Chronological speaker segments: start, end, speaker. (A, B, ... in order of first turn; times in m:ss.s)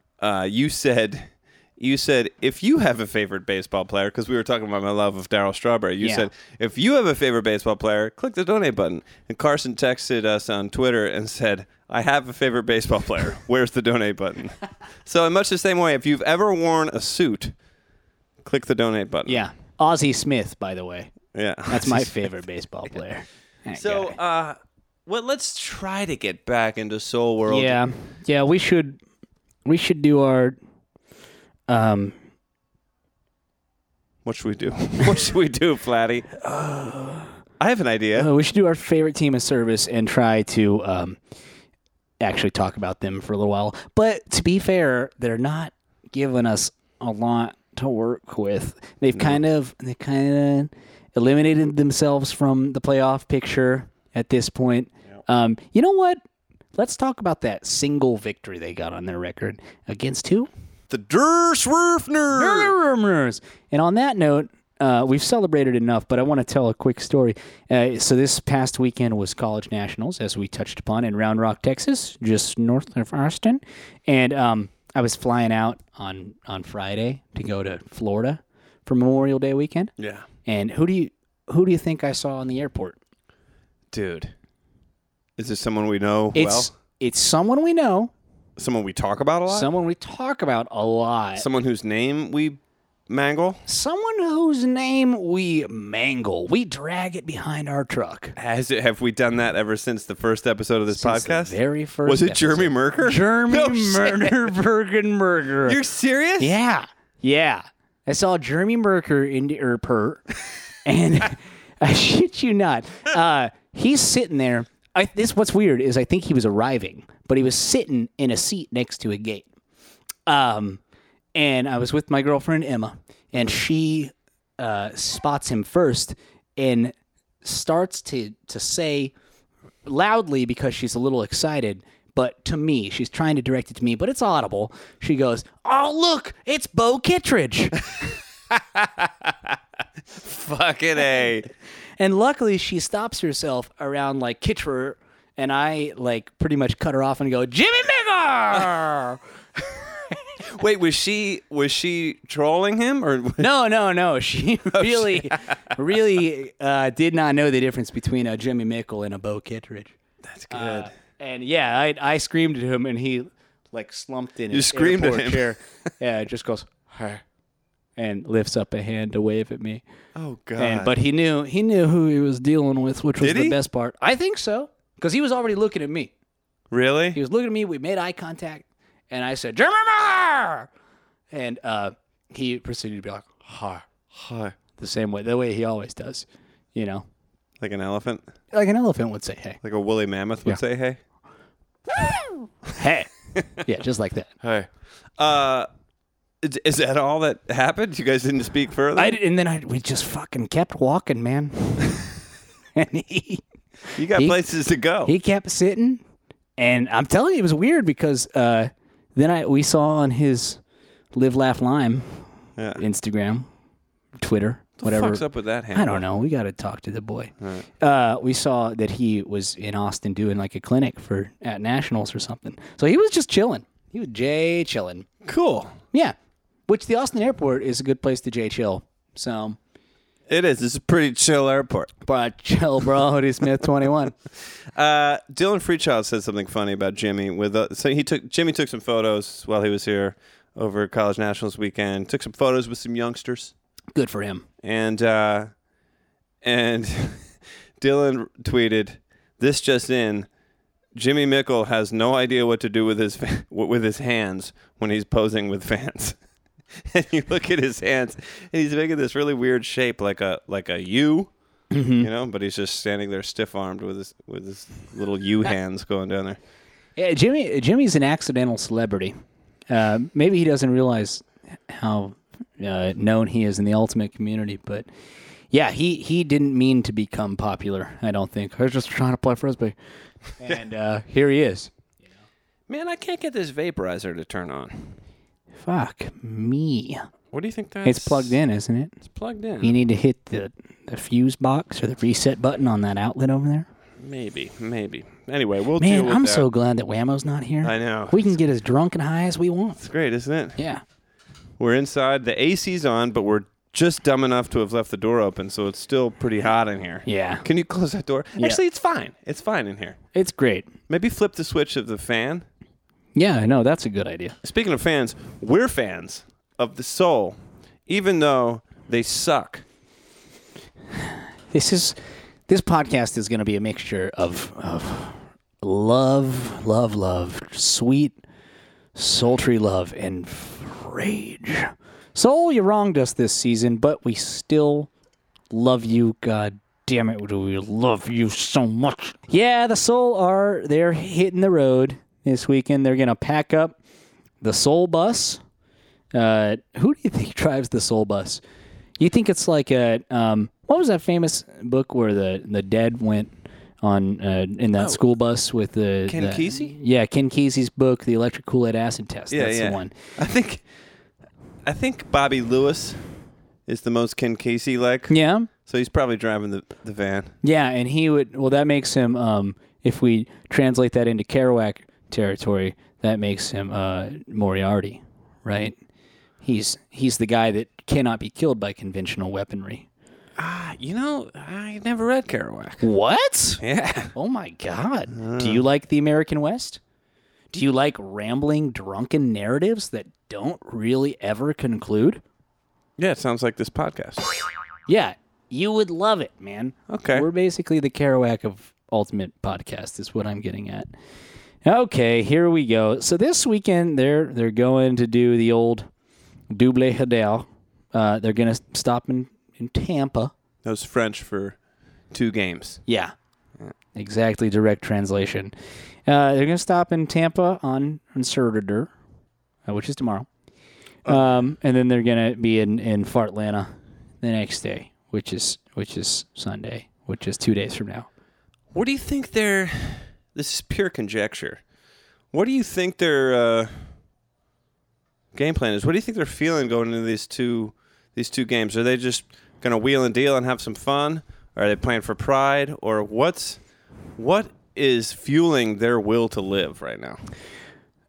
0:00.2-0:17.5 A
0:06.0-0:06.3 B
0:18.4-0:19.4 A
0:19.3-0:21.1 B
0:21.3-0:22.1 A
0:21.7-0:24.2 B
0:23.8-0:27.8 A
0:27.5-0:29.0 B
0:29.6-0:30.6 B
0:31.7-0:32.1 B
0:34.2-0:36.3 A
0:36.4-0:37.3 B
0:37.6-0:38.3 A
0:38.1-0:41.2 B
0:42.2-0:56.2 B
0:56.7-1:00.5 B
1:00.9-1:02.7 A
1:02.3-1:19.9 B
1:20.0-1:20.2 A
1:20.4-1:23.0 B
1:23.9-1:24.3 A
1:25.4-1:26.7 A
1:26.3-1:28.1 B
1:28.6-1:29.7 A
1:29.5-1:31.4 B
1:31.4-1:33.6 A
1:33.6-1:38.4 B
1:38.4-1:44.5 A
1:40.9-1:45.8 B
1:45.6-1:46.5 A
1:46.4-1:50.3 B
1:50.8-1:59.5 B
2:00.3-2:00.8 B
2:01.3-2:09.1 B
2:09.8-2:17.8 B
2:18.0-2:19.6 A
2:20.1-2:21.5 A
2:22.0-2:30.2 B
2:30.5-2:33.5 A
2:33.4-2:39.9 B
2:34.7-2:35.7 A
2:40.2-2:40.9 A
2:40.5-2:47.2 B
2:44.5-2:45.5 A
2:48.0-2:49.8 B
2:50.1-2:50.9 A
2:50.6-2:56.1 B
2:53.2-2:53.6 A
2:56.7-2:57.2 A
2:57.1-3:00.7 B
3:01.3-3:03.9 B
3:04.1-3:04.5 A
3:04.8-3:07.0 B
3:07.6-3:08.2 A
3:08.5-3:09.6 B
3:09.6-3:11.0 A
3:12.8-3:14.3 B
3:14.4-3:15.7 A
3:16.4-3:19.2 A
3:19.0-3:22.2 B
3:22.8-3:24.4 B
3:24.0-3:25.1 A
3:25.0-3:26.0 B
3:26.6-3:30.6 B
3:31.1-3:32.2 B
3:32.8-3:33.5 B
3:34.2-3:45.1 B
3:34.8-3:36.0 A
3:45.2-3:45.8 A
3:46.7-3:49.6 B
3:50.3-3:51.9 A
3:52.0-3:54.1 B
3:54.7-4:03.5 A
4:03.9-4:04.4 B
4:04.6-4:05.5 A
4:06.4-4:07.3 A
4:07.8-4:10.3 A
4:10.9-4:16.2 A
4:16.8-4:21.3 A
4:21.7-4:22.1 B
4:22.0-4:26.4 A
4:27.0-4:29.1 B
4:29.7-4:34.9 B
4:35.5-4:39.7 B
4:40.4-4:41.7 B
4:42.7-4:45.0 A
4:45.6-4:47.1 B
4:47.3-4:48.4 A
4:47.8-4:49.0 B
4:49.1-4:49.7 A
4:49.6-4:53.7 B
4:54.0-4:56.4 A
4:55.8-4:59.8 B
4:57.6-4:58.3 A
4:59.8-5:00.6 A
5:00.6-5:00.8 B
5:01.6-5:10.0 A
5:07.0-5:07.4 B
5:10.1-5:10.7 B
5:10.9-5:12.4 A
5:13.2-5:14.4 B
5:14.4-5:17.4 A
5:17.9-5:19.6 A
5:21.5-5:22.0 B
5:22.5-5:28.2 B
5:28.9-5:34.9 B
5:35.5-5:43.8 B
5:44.4-5:45.4 B
5:46.1-5:48.4 B
5:49.0-5:59.9 B
5:56.1-5:56.7 A
5:59.3-6:00.6 A
6:01.6-6:03.0 A
6:03.6-6:05.1 A
6:05.1-6:05.5 B
6:05.6-6:07.3 A
6:07.4-6:15.7 B
6:16.4-6:19.9 B
6:20.4-6:22.8 A
6:22.8-6:23.6 B
6:23.6-6:24.1 A
6:24.1-6:26.8 B
6:25.1-6:25.6 A
6:27.5-6:32.2 B
6:33.0-6:34.3 A
6:34.9-6:40.9 B
6:36.9-6:37.2 A
6:41.6-6:45.9 B
6:46.5-6:50.3 B
6:50.6-6:51.6 A
6:52.1-6:52.8 A
6:52.9-6:53.1 B
6:53.9-6:55.5 B
6:56.0-6:58.9 B
6:59.6-7:00.3 B
7:01.0-7:03.7 B
7:04.2-7:08.1 B
7:08.7-7:11.6 A
7:12.3-7:13.9 A
7:15.3-7:23.6 A
7:24.2-7:27.2 A